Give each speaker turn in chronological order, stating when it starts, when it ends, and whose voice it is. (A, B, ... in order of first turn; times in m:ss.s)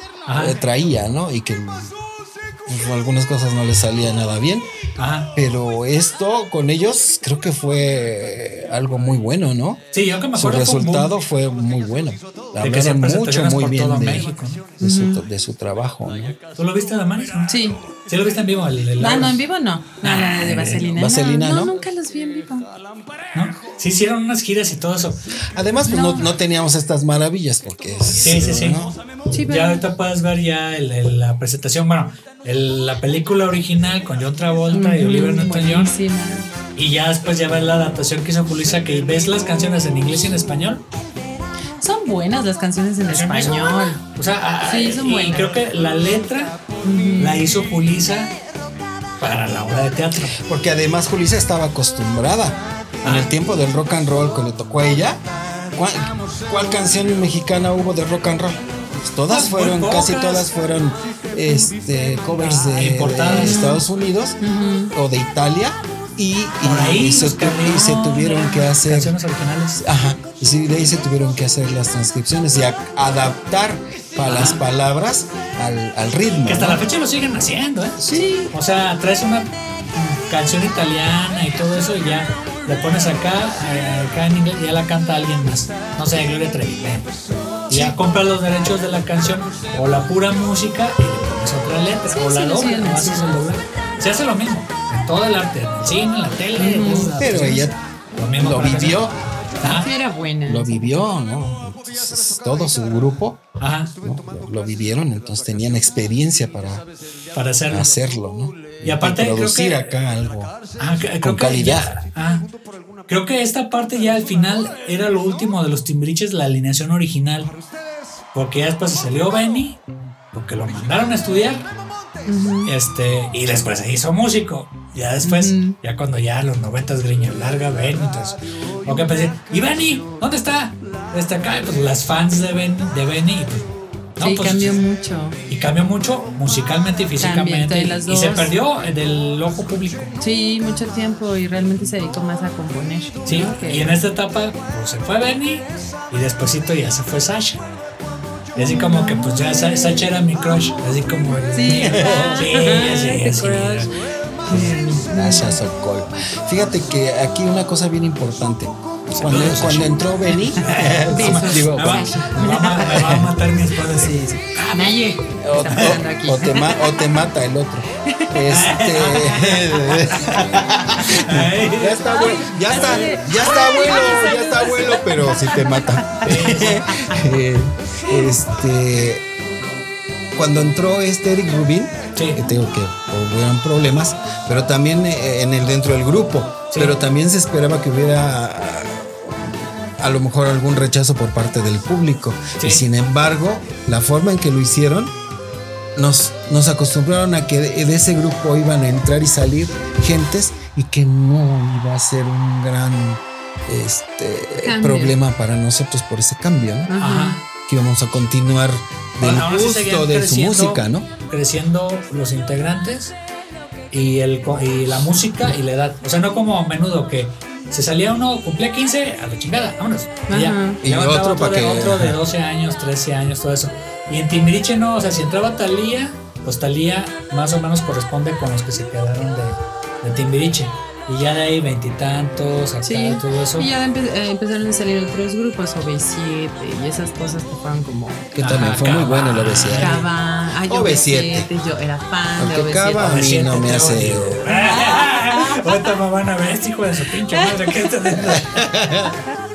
0:00.2-0:00.6 A
0:00.3-0:01.9 B
0:02.6-0:04.7 B
0:05.0-0:05.3 A
0:05.3-0:16.4 B
0:09.9-0:11.2 A
0:12.6-0:14.7 A
0:14.8-0:15.2 C
0:16.5-0:19.4 A
0:17.5-0:17.8 C
0:19.0-0:22.7 C
0:20.0-0:20.9 A
0:20.9-0:21.7 B
0:23.3-0:25.3 A
0:25.5-0:29.0 B
0:25.9-0:26.3 C
0:28.2-0:35.9 A
0:29.3-0:29.8 C
0:34.7-0:36.5 C
0:36.8-0:40.8 A
0:41.8-0:44.0 C
0:43.0-0:46.6 A
0:44.6-0:45.6 C
0:46.8-0:47.5 C
0:47.2-0:48.3 A
0:49.2-0:50.4 A
0:50.3-1:04.4 B
0:53.0-0:53.3 A
0:59.3-1:00.5 A
1:02.4-1:03.7 A
1:03.3-1:03.8 C
1:04.4-1:04.9 C
1:04.9-1:09.2 B
1:06.6-1:09.8 A
1:09.8-1:16.8 B
1:14.2-1:14.6 A
1:16.4-1:27.1 A
1:18.0-1:18.3 B
1:18.1-1:18.5 C
1:27.7-1:39.9 A
1:27.7-1:28.0 B
1:32.1-1:33.4 C
1:36.6-1:37.2 C
1:37.2-1:37.8 B
1:38.4-1:39.2 B
1:39.6-1:40.9 C
1:40.4-1:46.8 B
1:43.6-1:43.9 A
1:47.3-1:47.9 A
1:47.7-1:50.6 B
1:48.8-1:49.9 A
1:50.8-1:52.5 A
1:51.2-1:52.0 B
1:53.1-1:57.5 A
1:58.3-2:01.7 A
2:02.2-2:02.7 C
2:02.6-2:14.8 A
2:05.2-2:05.8 C
2:14.2-2:15.4 C
2:15.5-2:20.1 A
2:17.2-2:18.5 C
2:20.2-2:24.0 C
2:23.2-2:27.6 A
2:28.5-2:33.9 A
2:28.6-2:29.3 C
2:31.5-2:33.9 C
2:31.7-2:32.4 B
2:34.4-2:35.6 C
2:34.5-2:34.7 A
2:34.6-2:43.3 B
2:39.1-2:44.8 A
2:40.6-2:43.2 C
2:43.8-2:47.2 C
2:45.4-2:59.2 B
2:45.7-2:46.0 A
2:48.0-2:48.5 C
2:48.5-2:53.1 A
2:49.4-2:50.0 C
2:52.0-2:57.2 C
2:56.2-2:56.9 A
3:00.3-3:15.1 B
3:02.2-3:02.4 A
3:12.6-3:12.8 A
3:16.0-3:26.9 B
3:24.6-3:25.2 C
3:26.9-3:27.4 C
3:27.0-3:27.4 A
3:27.6-3:31.1 B
3:29.2-3:33.2 A
3:33.9-3:53.7 A
3:40.3-3:40.8 C
3:40.8-3:42.2 B
3:52.8-3:58.4 C
3:58.3-4:00.1 B
3:58.4-4:00.1 A
3:59.8-4:03.3 C
4:00.6-4:01.5 B
4:02.4-4:04.5 B
4:03.0-4:08.7 A
4:04.5-4:05.7 C
4:07.3-4:07.7 C
4:08.1-4:09.2 B